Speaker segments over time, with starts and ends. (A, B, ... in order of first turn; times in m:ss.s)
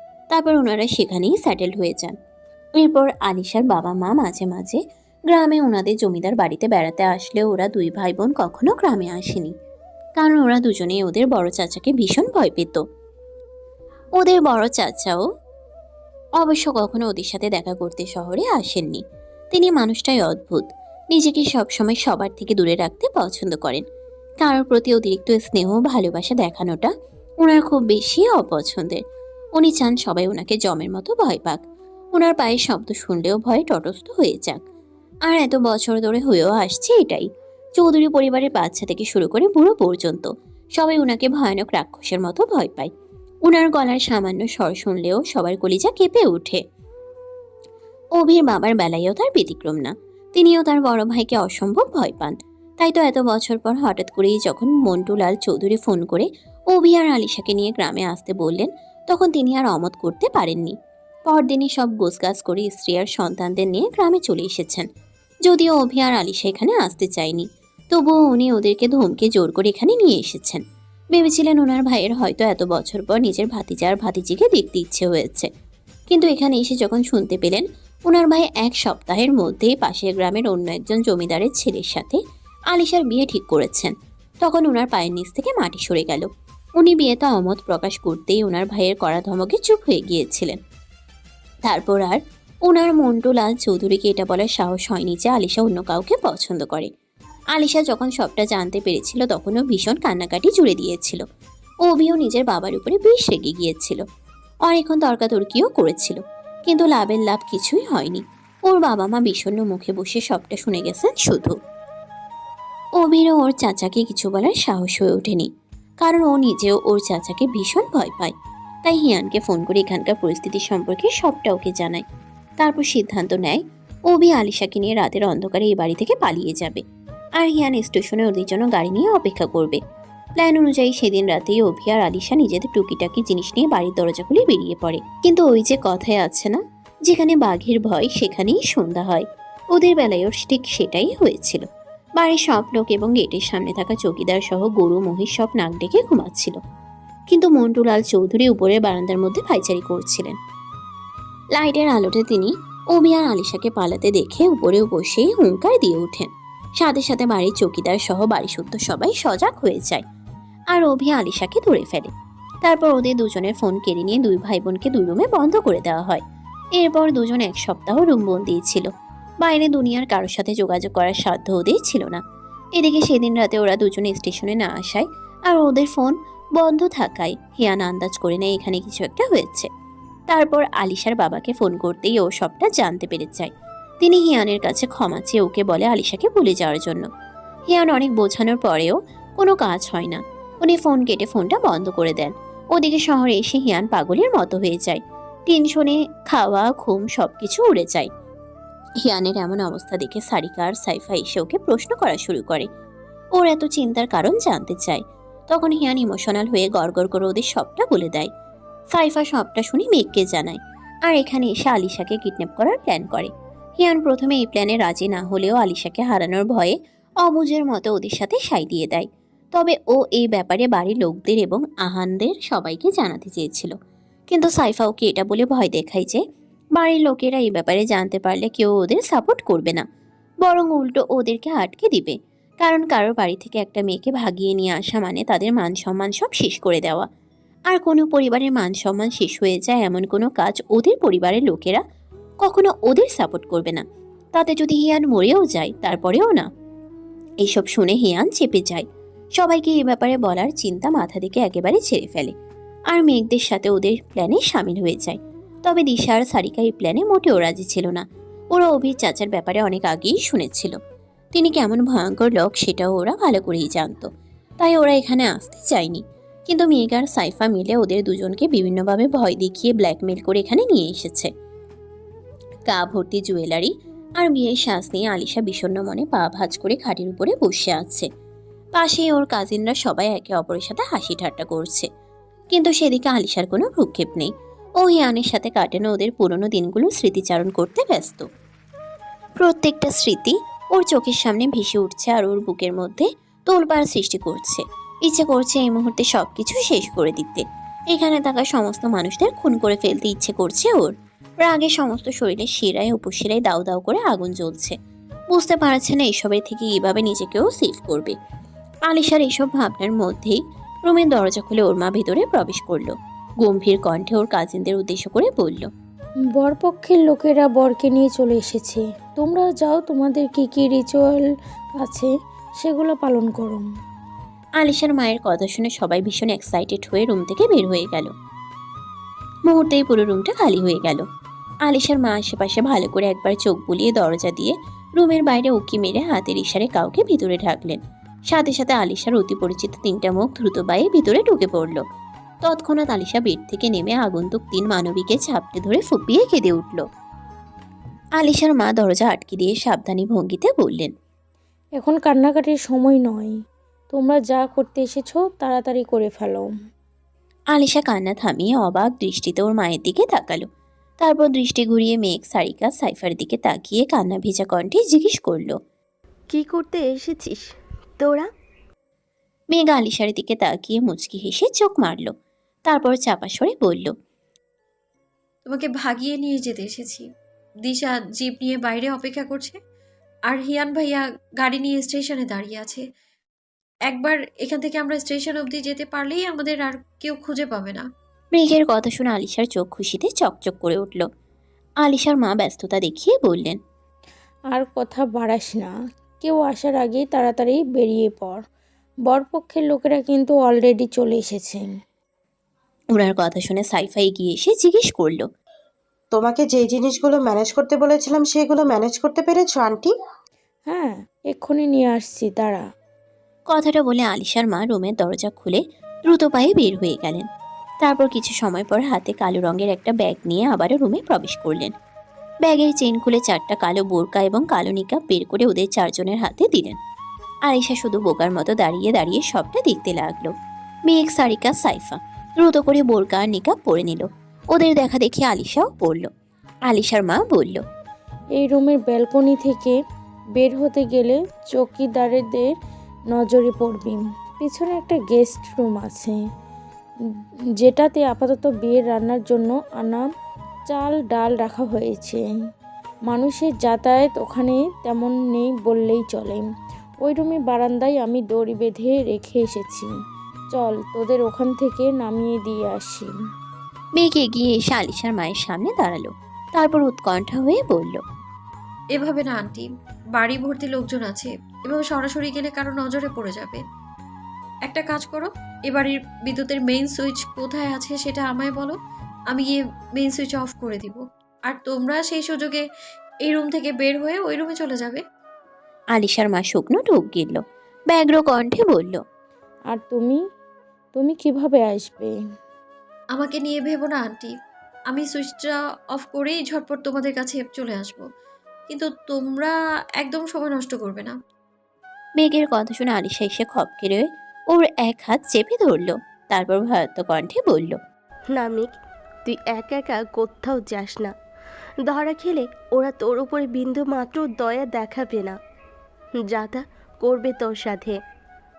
0:00.3-0:02.2 A
0:02.8-0:09.5 A
0:10.2-0:12.8 A
0:14.2-0:15.2 A
0:16.4-0:23.8 A
0:24.4-0:29.0 A
0:29.6-0:31.6 A
0:32.1-0:34.6 A
0:35.3-0:42.9 A
0:43.5-0:46.6 A
0:48.2-1:00.8 A
1:01.3-1:04.9 A
1:05.5-1:10.6 A
1:11.1-1:15.5 A
1:16.1-1:22.2 A
1:22.7-1:30.6 A
1:31.6-1:36.9 A
1:37.5-1:41.2 A
1:41.8-1:44.0 A
1:44.7-1:51.5 A
1:53.0-1:55.5 A
1:56.0-2:02.0 A
2:02.6-2:06.8 A
2:07.4-2:09.8 A
2:10.4-2:21.6 A
2:22.2-2:26.6 A
2:27.3-2:30.4 A
2:31.6-2:40.0 A
2:40.7-2:42.1 A
2:42.6-2:46.2 A
2:46.8-2:48.9 A
2:49.4-2:52.2 A
2:52.8-2:59.7 A
3:00.3-3:03.5 A
3:04.0-3:07.0 A
3:07.7-3:18.1 A
3:19.0-3:22.7 A
3:23.4-3:28.3 A
3:28.9-3:43.7 A
3:44.3-3:46.2 A
3:46.8-3:49.8 A
3:50.4-3:57.1 A
3:57.7-4:01.8 A
4:02.4-4:06.5 A
4:07.4-4:08.9 A
4:09.4-4:12.3 A
4:12.9-4:20.8 A
4:21.3-4:24.1 A
4:24.6-4:31.3 A
4:32.7-4:38.1 A
4:38.8-4:41.9 A
4:42.5-4:48.3 A
4:49.4-5:04.8 A
5:05.3-5:08.2 A
5:08.9-5:15.7 A
5:16.4-5:21.2 B
5:21.8-5:23.6 B
5:24.6-5:28.1 A
5:29.5-5:31.0 A
5:31.6-5:41.8 A
5:42.4-5:46.8 A
5:48.2-5:50.9 A
5:51.8-5:53.3 B
5:53.9-5:56.5 B
5:57.5-6:00.5 A
6:01.0-6:05.6 A
6:06.3-6:07.5 C
6:08.0-6:08.3 C
6:09.5-6:12.1 A
6:12.7-6:13.9 A
6:15.5-6:17.0 D
6:17.7-6:19.6 D
6:20.3-6:22.8 D
6:23.9-6:27.9 D
6:28.3-6:31.0 A
6:31.8-6:33.6 A
6:34.5-6:35.7 B
6:36.2-6:38.4 B
6:39.1-6:41.6 B
6:42.9-6:45.3 A
6:46.1-6:49.9 E
6:50.7-6:52.6 B
6:53.5-6:57.2 A
6:57.8-7:01.7 A
7:02.4-7:06.8 A
7:07.5-7:10.3 A
7:10.9-7:16.1 A
7:16.7-7:17.6 A
7:18.4-7:19.8 B
7:20.4-7:22.5 B
7:23.1-7:26.2 B
7:27.6-7:30.1 B
7:30.7-7:32.2 B
7:33.1-7:36.5 B
7:37.0-7:39.9 B
7:40.5-7:43.1 B
7:44.0-7:48.0 A
7:48.9-7:53.6 D
7:54.6-7:58.8 D
7:59.3-8:02.6 D
8:03.2-8:05.0 D
8:05.9-8:09.0 A
8:09.7-8:10.2 B
8:10.9-8:12.1 B
8:13.2-8:14.3 D
8:14.9-8:18.0 D
8:18.7-8:21.2 D
8:22.2-8:27.8 A
8:28.3-8:28.7 C
8:29.2-8:31.1 C
8:31.8-8:35.4 C
8:36.1-8:38.0 C